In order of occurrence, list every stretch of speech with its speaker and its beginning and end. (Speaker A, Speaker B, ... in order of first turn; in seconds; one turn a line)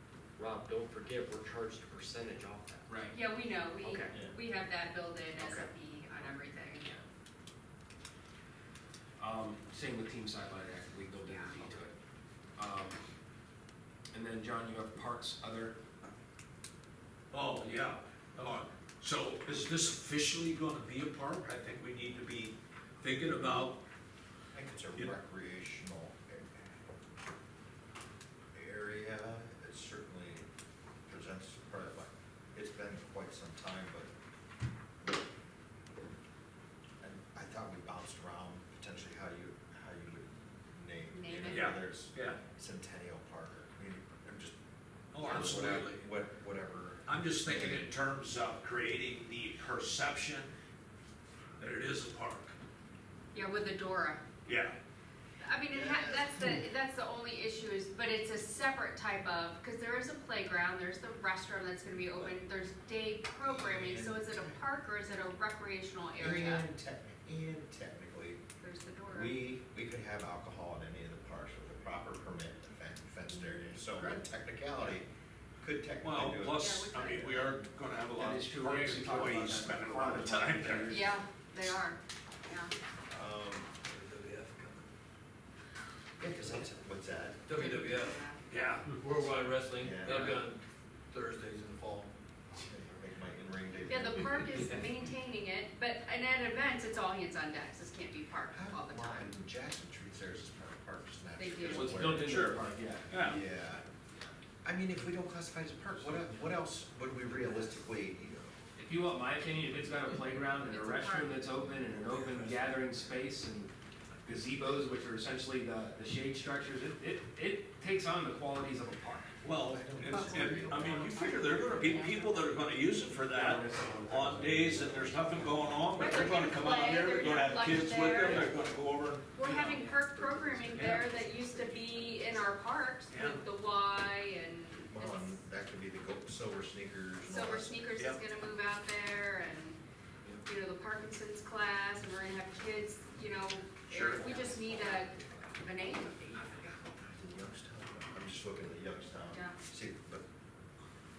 Speaker A: 0.4-2.9
Speaker B: 2.9-3.1
Speaker C: 3.1-7.0
Speaker B: 3.8-4.1
Speaker B: 9.2-11.9
Speaker C: 11.2-11.6
Speaker B: 12.6-13.0
Speaker B: 14.1-15.8
Speaker D: 17.3-23.8
Speaker E: 24.5-26.8
Speaker E: 28.5-30.5
Speaker E: 31.1-34.1
Speaker E: 35.0-35.2
Speaker E: 37.0-44.5
Speaker C: 41.1-41.7
Speaker D: 41.5-42.4
Speaker D: 45.1-46.0
Speaker E: 45.1-47.9
Speaker D: 47.0-50.5
Speaker D: 51.6-52.5
Speaker C: 53.3-54.2
Speaker D: 54.4-54.8
Speaker C: 55.4-66.7
Speaker E: 55.7-56.6
Speaker E: 63.4-64.6
Speaker E: 66.2-68.4
Speaker C: 68.6-69.3
Speaker E: 69.1-75.0
Speaker C: 73.3-74.0
Speaker E: 75.6-77.5
Speaker D: 76.0-81.0
Speaker C: 76.6-77.6
Speaker B: 78.2-81.2
Speaker C: 80.9-82.7
Speaker E: 83.1-83.7
Speaker F: 83.8-84.9
Speaker E: 86.2-87.4
Speaker F: 87.5-88.2
Speaker C: 87.5-88.4
Speaker D: 88.5-88.8
Speaker F: 88.8-92.1
Speaker E: 89.8-90.5
Speaker E: 92.5-94.7
Speaker C: 93.9-99.3
Speaker E: 98.5-102.6
Speaker C: 101.4-101.9
Speaker B: 101.6-103.2
Speaker D: 102.0-103.4
Speaker E: 103.2-103.9
Speaker E: 104.6-108.6
Speaker B: 108.8-113.7
Speaker C: 110.6-111.4
Speaker B: 114.2-119.3
Speaker D: 119.4-129.8
Speaker E: 119.6-121.6
Speaker C: 120.1-122.7
Speaker B: 123.3-125.4
Speaker C: 125.9-128.5
Speaker C: 129.3-135.3
Speaker D: 130.7-131.2
Speaker A: 131.4-131.7
Speaker D: 133.1-133.4
Speaker E: 134.9-137.8
Speaker C: 137.2-139.8
Speaker D: 137.9-138.2
Speaker C: 140.4-146.7
Speaker A: 144.0-145.4
Speaker E: 146.9-150.2
Speaker C: 149.3-149.6